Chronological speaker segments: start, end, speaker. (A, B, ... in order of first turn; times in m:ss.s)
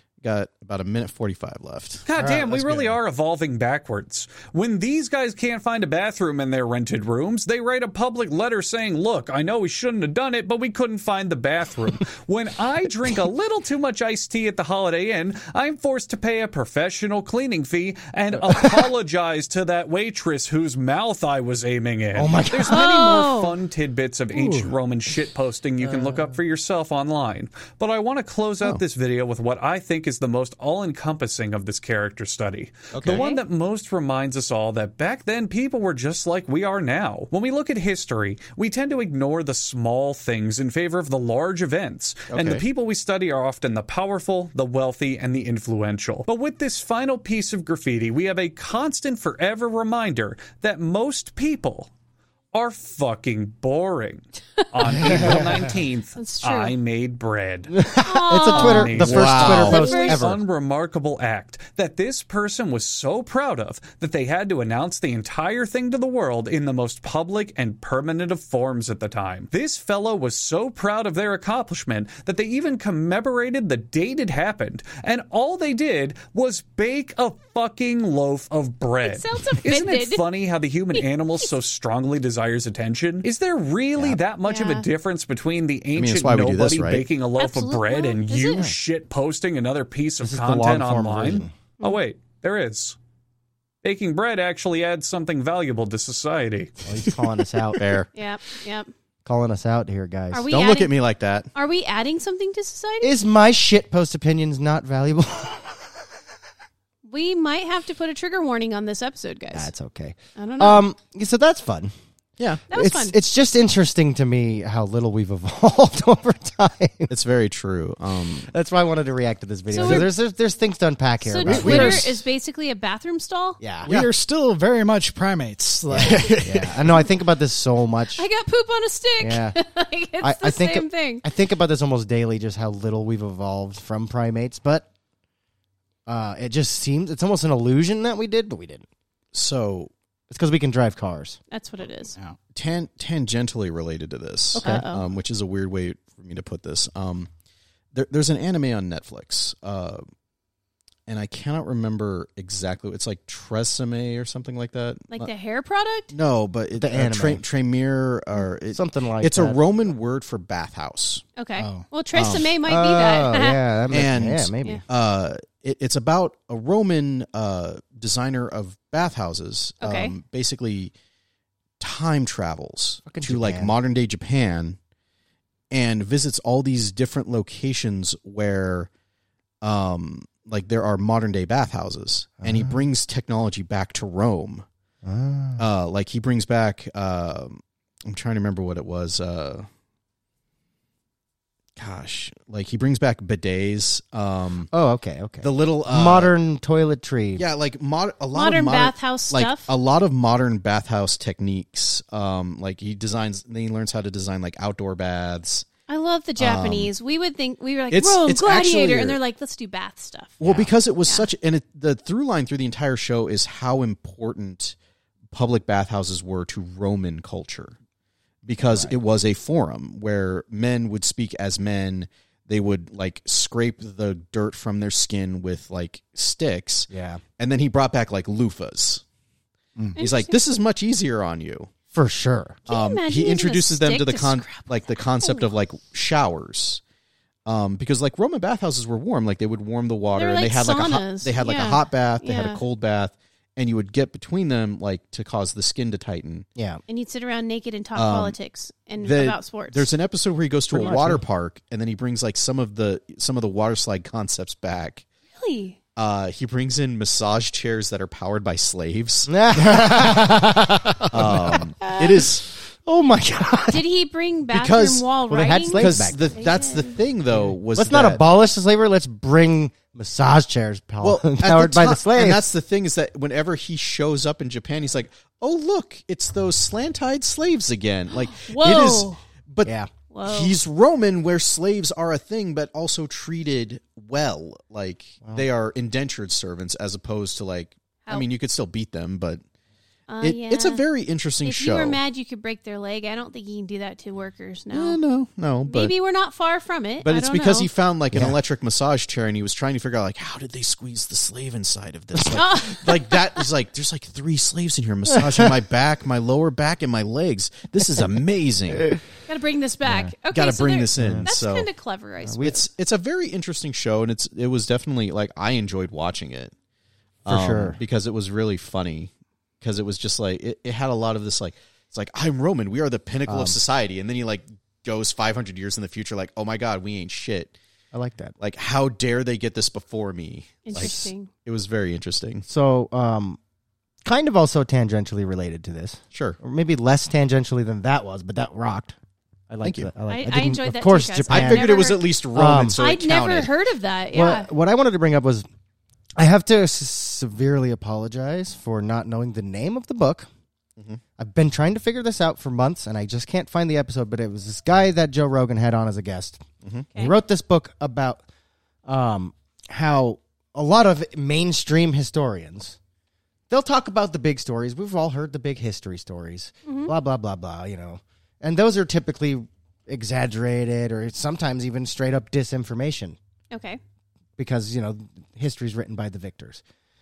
0:00.2-0:02.0 A
0:02.0-0:51.9 B
0:02.2-0:02.8 C
0:22.1-0:22.9 C
0:22.7-0:23.5 D
0:24.3-0:24.7 C
0:32.9-0:33.2 A
0:33.0-0:33.4 D
0:42.3-0:42.6 A
0:52.5-0:57.8 B
0:55.0-0:55.4 C
0:55.1-0:55.4 E
0:56.2-0:56.7 D
0:57.7-1:00.4 C
0:58.0-1:00.2 D
0:58.4-1:33.0 B
0:58.9-0:59.8 A
1:19.0-1:20.2 D
1:20.9-1:21.5 D
1:24.4-1:24.9 D
1:25.9-1:27.0 A
1:27.4-1:28.7 D
1:30.2-1:31.5 C
1:33.8-1:36.8 B
1:36.8-1:37.8 C
1:37.7-1:38.1 A
1:38.1-1:38.9 D
1:39.2-1:40.5 C
1:40.3-1:41.0 D
1:40.5-1:41.5 A
1:41.5-1:43.1 D
1:43.0-1:45.9 C
1:47.1-1:49.7 D
1:49.5-1:51.9 C
1:50.4-1:50.8 D
1:52.7-1:53.1 D
1:52.7-1:57.1 C
1:57.1-1:58.5 A
1:58.5-2:02.1 C
1:59.7-2:00.1 D
2:01.2-2:03.6 D
2:01.5-2:02.0 A
2:01.5-2:02.0 E
2:03.6-2:04.1 C
2:03.8-2:07.0 E
2:05.9-2:08.2 C
2:08.1-2:11.2 D
2:09.2-2:09.6 C
2:10.2-2:14.8 C
2:16.1-2:18.8 C
2:19.3-2:19.9 A
2:20.3-2:21.4 C
2:21.5-2:22.2 D
2:22.5-2:27.3 A
2:24.5-2:24.8 C
2:24.5-2:25.0 D
2:27.9-2:30.0 A
2:31.1-2:35.3 A
2:35.1-2:36.1 D
2:36.1-2:41.2 A
2:36.8-2:37.4 C
2:38.7-2:39.6 C
2:41.4-2:43.6 D
2:41.6-2:41.9 E
2:42.1-2:42.6 A
2:42.6-2:44.8 C
2:43.9-2:50.9 A
2:49.8-2:50.1 D
2:51.8-2:54.8 A
2:53.1-2:53.7 C
2:55.7-2:58.9 A
2:59.6-3:04.6 A
3:02.4-3:02.8 C
3:05.0-3:05.6 C
3:05.6-3:09.7 A
3:11.8-3:14.7 A
3:14.7-3:17.4 C
3:15.4-3:16.3 A
3:17.4-3:25.6 A
3:18.3-3:19.7 D
3:25.9-3:30.4 D
3:26.4-3:26.9 A
3:27.9-3:29.2 A
3:30.4-3:34.7 A
3:30.4-3:30.7 C
3:35.3-3:37.8 A
3:38.4-3:49.0 A
3:38.6-3:39.0 C
3:46.9-3:47.2 C
3:50.0-3:50.4 D
3:50.0-3:51.7 A
3:51.9-3:52.6 C
3:52.7-3:55.5 D
3:52.7-3:56.8 A
3:57.4-4:06.4 A
4:00.1-4:02.6 D
4:06.6-4:06.8 C
4:06.9-4:09.9 D
4:07.9-4:08.3 A
4:09.0-4:15.0 A
4:10.7-4:11.2 C
4:15.4-4:15.8 D
4:16.0-4:19.3 A
4:19.3-4:23.8 C
4:21.1-4:22.5 A
4:21.8-4:22.2 D
4:23.7-4:27.0 D
4:24.5-4:25.1 A
4:25.3-4:26.3 C
4:25.7-4:28.2 A
4:27.4-4:32.4 C
4:31.0-4:39.7 A
4:38.3-4:39.2 D
4:39.6-4:39.9 C
4:40.1-4:40.6 D
4:40.2-4:49.4 A
4:50.1-4:50.8 D
4:50.2-4:52.0 A
4:51.4-4:55.0 D
4:54.7-4:55.9 A
4:55.7-4:57.7 D
4:57.0-5:09.0 A
4:58.1-4:58.4 C
5:02.3-5:03.4 D
5:05.2-5:05.5 C
5:09.3-5:12.5 D
5:09.8-5:10.1 C
5:10.3-5:11.7 A
5:11.0-5:11.3 C
5:12.3-5:12.6 C
5:12.4-5:16.5 A
5:17.2-5:17.8 C
5:17.2-5:27.5 A
5:23.3-5:23.6 C
5:27.9-5:28.3 C
5:28.4-5:32.4 A
5:30.6-5:31.3 D
5:30.7-5:31.1 C
5:32.5-5:33.4 C
5:34.0-5:38.9 C
5:39.5-5:42.8 C
5:39.6-5:39.9 A
5:40.1-5:42.1 D
5:41.3-5:43.5 A
5:42.7-5:44.5 D
5:44.1-5:45.4 C
5:46.2-5:50.3 C
5:51.2-5:58.2 C
5:58.8-6:02.8 C
6:03.5-6:13.2 C
6:06.6-6:06.9 D
6:13.5-6:13.8 D
6:14.4-6:16.6 C